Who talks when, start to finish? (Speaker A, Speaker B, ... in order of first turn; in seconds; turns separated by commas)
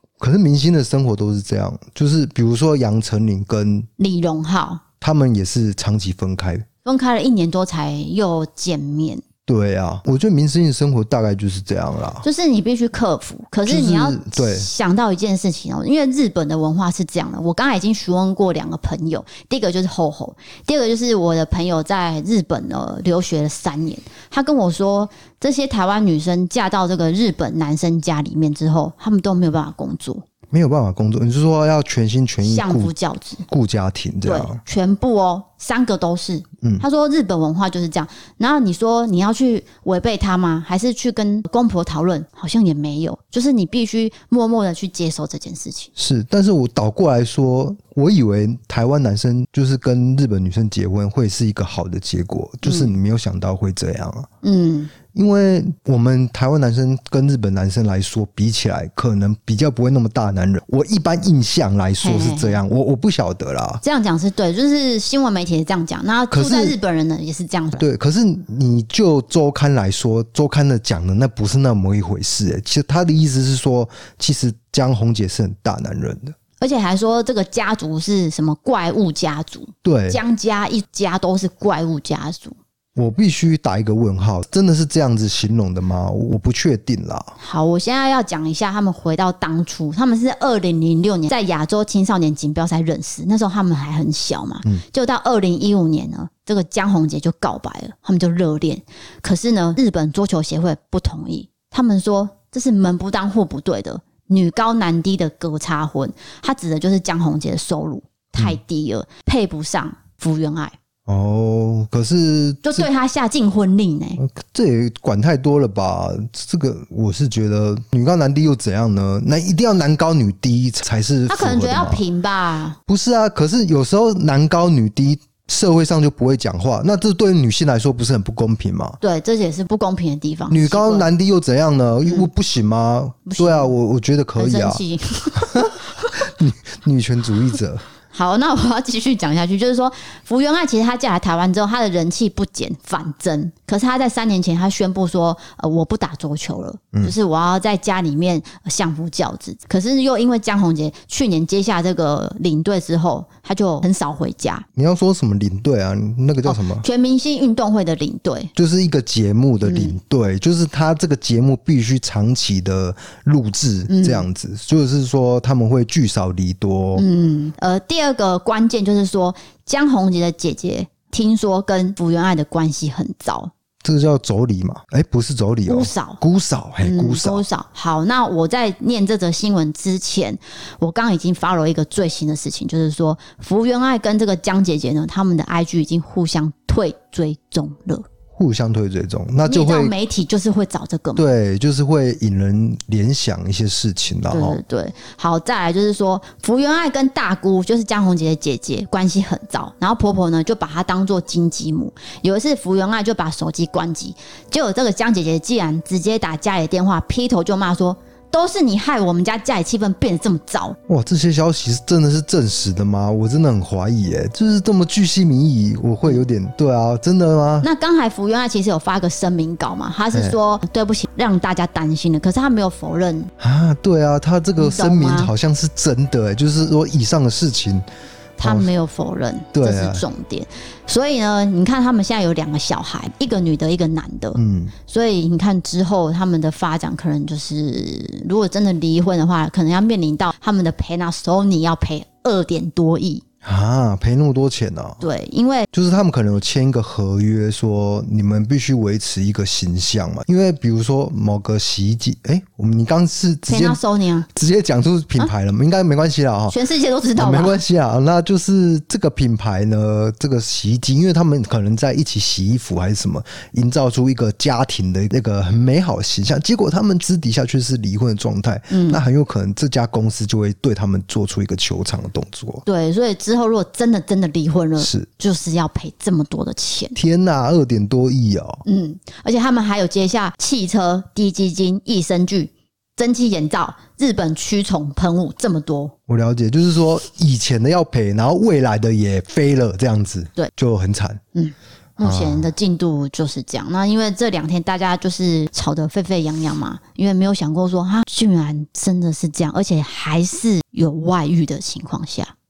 Speaker A: 0.2-3.9, Speaker B: 4.0-4.8, Speaker A: 5.0-6.7, Speaker B: 6.8-9.2, Speaker A: 9.5-12.2, Speaker B: 12.2-30.2, Speaker A: 13.7-14.7, Speaker A: 30.5-32.9, Speaker B: 32.4-33.5, Speaker A: 33.5-34.6, Speaker B: 34.2-45.9, Speaker A: 46.0-54.3, Speaker B: 52.6-52.9, Speaker B: 54.4-54.9, Speaker A: 55.1-63.8, Speaker B: 62.0-62.6, Speaker B: 63.8-67.8, Speaker A: 66.3-66.8, Speaker A: 67.8-76.3, Speaker B: 76.6-82.6, Speaker A: 79.8-80.2, Speaker A: 83.0-87.3, Speaker B: 87.4-110.8, Speaker A: 111.1-112.9, Speaker B: 112.6-114.2, Speaker A: 114.2-122.0, Speaker B: 121.3-122.8, Speaker A: 122.9-129.0, Speaker B: 129.0-131.1, Speaker A: 130.5-134.8, Speaker B: 133.3-133.7, Speaker B: 134.4-136.3, Speaker A: 135.3-137.8, Speaker B: 138.1-154.7, Speaker A: 154.8-156.8, Speaker B: 156.4-158.5, Speaker A: 158.6-167.1, Speaker B: 159.6-160.0, Speaker B: 163.9-164.2, Speaker B: 167.0-173.5, Speaker A: 173.8-177.4, Speaker B: 175.7-176.2, Speaker B: 176.8-188.1, Speaker A: 188.3-189.9, Speaker B: 189.5-191.2, Speaker A: 191.2-194.6, Speaker B: 194.3-210.8, Speaker A: 210.9-217.7, Speaker B: 217.6-223.3, Speaker A: 223.4-227.8, Speaker B: 224.6-225.3, Speaker A: 228.4-228.7, Speaker B: 228.4-243.2, Speaker A: 229.5-230.1, Speaker A: 234.4-234.7, Speaker A: 243.4-245.0, Speaker B: 245.0-245.7, Speaker A: 245.7-253.8, Speaker B: 253.5-254.3, Speaker A: 254.3-256.6, Speaker B: 256.5-257.6, Speaker A: 257.2-272.6, Speaker B: 268.7-269.0, Speaker B: 272.7-277.0, Speaker A: 274.8-275.1, Speaker A: 277.0-278.6, Speaker B: 278.7-285.9, Speaker A: 286.1-291.2, Speaker B: 291.4-302.3, Speaker A: 292.0-292.5